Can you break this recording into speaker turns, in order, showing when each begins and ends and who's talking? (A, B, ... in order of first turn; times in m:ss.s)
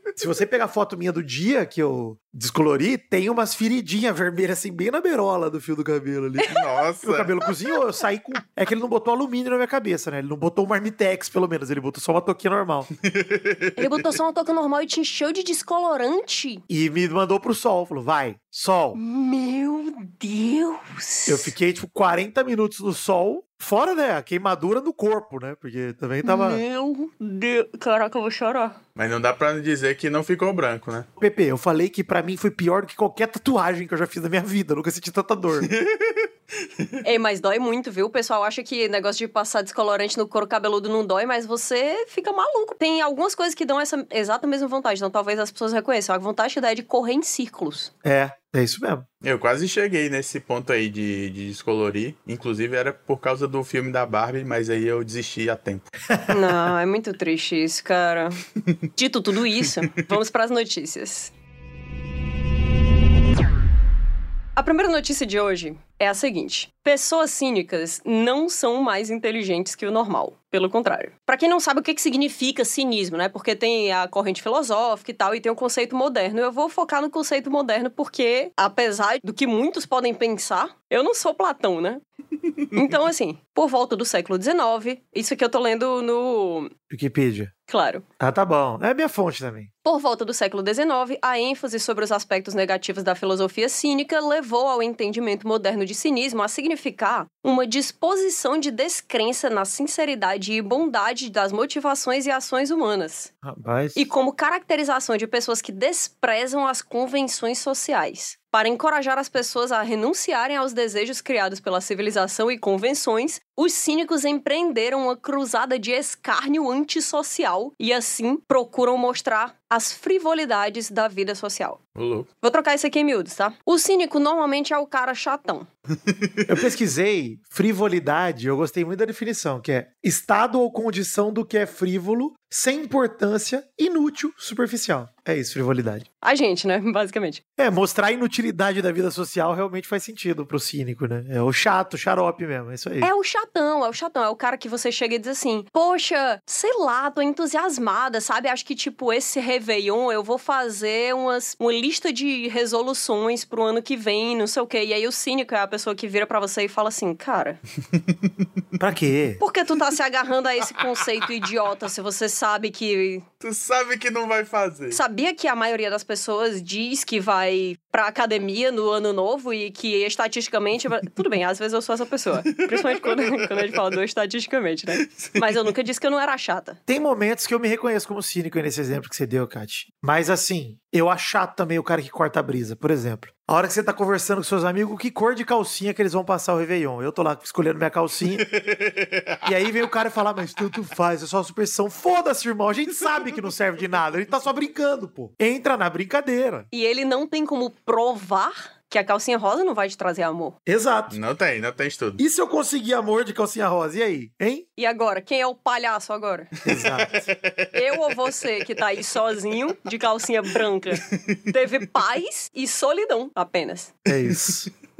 0:00.2-0:12.9 A
0:06.4-0:06.7 B
0:06.5-0:07.3 C
0:13.0-0:13.9 C
0:13.8-0:16.6 B
0:16.7-0:19.0 A
0:18.9-0:21.5 B
0:21.2-0:26.6 A
0:26.2-0:28.8 B
0:29.0-0:31.1 C
0:31.2-0:35.7 A
0:35.6-0:37.0 C
0:37.0-0:47.9 B
0:48.0-0:49.0 A
0:49.2-0:55.9 C
0:56.3-0:58.4 B
0:59.0-1:01.3 B
1:04.6-1:22.0 B
1:22.7-1:26.7 B
1:26.9-1:27.5 A
1:27.7-1:28.0 B
1:28.2-1:29.7 A
1:29.8-1:43.3 B
1:43.4-1:44.0 A
1:44.0-2:01.8 B
2:02.0-2:02.3 C
2:02.4-2:05.7 B
2:06.1-2:06.5 C
2:06.5-2:16.0 A
2:16.2-2:17.4 B
2:17.6-2:23.1 A
2:23.0-2:37.6 B
2:38.8-2:39.4 A
2:39.4-2:43.2 B
2:43.4-2:45.0 C
2:44.9-2:56.8 B
2:52.6-2:53.7 C
2:55.0-2:55.5 C
2:56.9-3:08.4 A
3:08.4-3:09.4 C
3:09.4-3:16.6 A
3:16.7-3:20.5 B
3:20.6-3:21.2 A
3:21.1-3:22.2 C
3:22.2-3:24.6 A
3:24.8-3:26.5 B
3:26.6-3:27.3 A
3:26.7-3:27.7 C
3:27.7-3:33.9 B
3:34.0-3:34.7 A
3:34.2-3:34.6 C